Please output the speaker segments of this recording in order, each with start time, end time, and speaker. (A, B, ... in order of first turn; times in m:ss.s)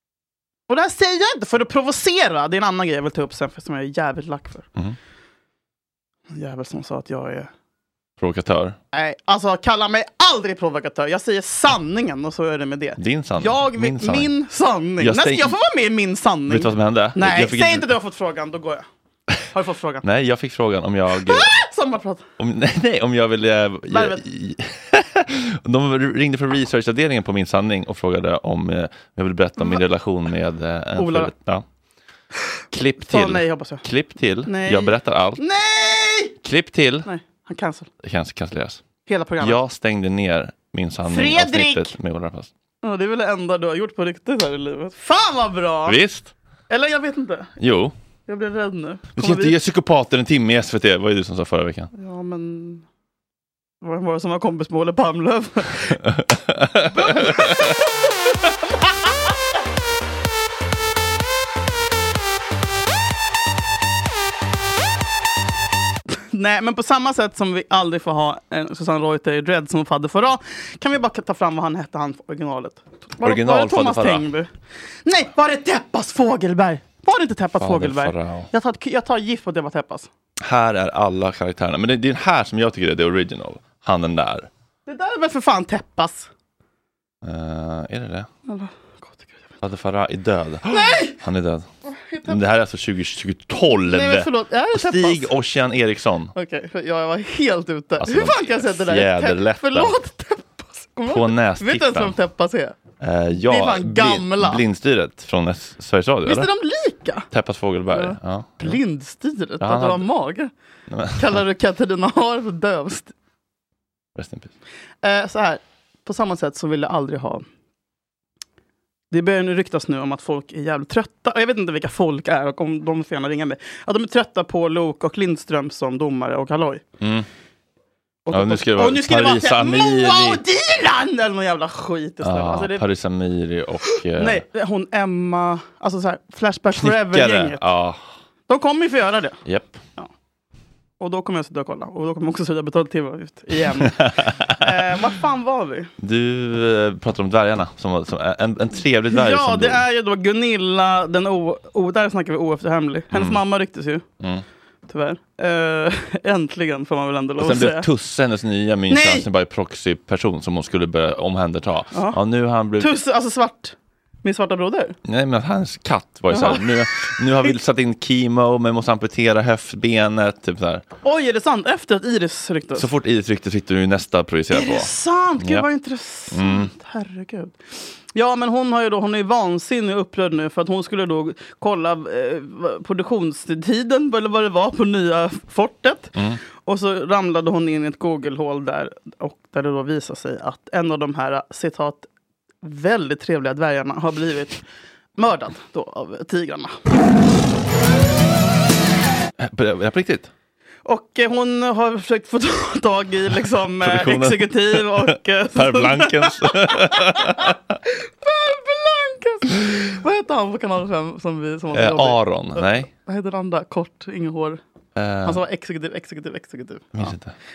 0:00.7-0:04.7 A
0:06.3-0:07.5 A
0:08.2-0:08.8 B
0:08.9-0:18.8 A
0:13.0-0:14.3 B
0:15.0-0:15.6 B
0:16.5-0:17.9 B
0:19.5-0:20.0 A
0:20.0-0:21.5 B
0:21.3-0:22.2 A
0:22.4-0:31.6 B
0:23.9-0:24.2 A
0:31.0-0:31.3 A
0:32.7-0:35.4 B
0:33.0-0:33.8 A
0:34.5-0:36.4 A
0:36.4-0:37.1 B
0:37.1-0:37.9 A
0:38.0-0:38.8 B
0:39.1-0:39.6 A
0:39.4-0:42.5 B
0:41.1-0:41.9 A
0:42.8-0:46.0 A
0:45.9-0:46.3 B
0:46.7-0:47.5 A
0:47.6-0:47.9 B
0:48.3-0:49.6 A
0:49.2-0:51.9 B
0:51.9-0:52.8 A
0:53.8-0:56.0 A
0:56.2-0:57.5 B
0:56.9-0:57.8 A
1:06.3-1:14.5 A
1:13.2-1:14.3 B
1:15.1-1:20.1 A
1:17.6-1:18.5 B
1:20.4-1:24.5 B
1:24.9-1:26.3 A
1:27.2-1:28.3 B
1:28.5-1:29.4 A
1:29.6-1:31.7 B
1:30.7-1:31.2 A
1:31.9-1:32.4 A
1:32.3-1:36.3 B
1:33.8-1:35.3 A
1:36.4-1:42.8 A
1:38.0-1:40.0 B
1:41.1-1:42.2 B
1:43.0-1:46.5 B
1:43.5-1:44.6 A
1:46.3-1:47.3 A
1:47.3-1:48.8 B
1:47.9-1:50.5 A
1:49.6-1:50.1 B
1:50.9-1:51.4 B
1:51.2-1:53.1 A
1:54.2-1:54.5 B
1:55.0-1:57.5 A
1:59.1-2:06.8 A
2:07.0-2:07.3 B
2:08.3-2:12.8 A
2:08.3-2:10.4 B
2:12.2-2:14.4 B
2:14.2-2:17.6 A
2:16.8-2:18.1 B
2:18.5-2:19.4 A
2:19.4-2:19.8 B
2:21.0-2:24.0 A
2:23.8-2:24.6 B
2:24.6-2:25.9 A
2:26.0-2:29.8 B
2:29.1-2:34.0 A
2:33.1-2:33.4 B
2:34.9-2:37.9 A
2:37.4-2:42.9 B
2:38.9-2:39.2 A
2:42.8-2:45.0 A
2:45.0-2:50.8 B
2:46.3-2:46.7 A
2:51.0-2:52.9 A
2:52.8-2:55.7 B
2:54.5-2:57.6 A
2:56.3-2:56.7 B
2:58.1-3:12.1 A
3:06.2-3:06.4 B
3:12.6-3:14.6 A
3:15.2-3:16.8 A
3:19.4-3:20.3 B
3:20.8-3:34.6 A
3:23.8-3:27.6 B
3:31.7-3:32.9 B
3:35.0-3:35.4 B
3:35.2-3:37.1 A
3:37.0-3:37.3 B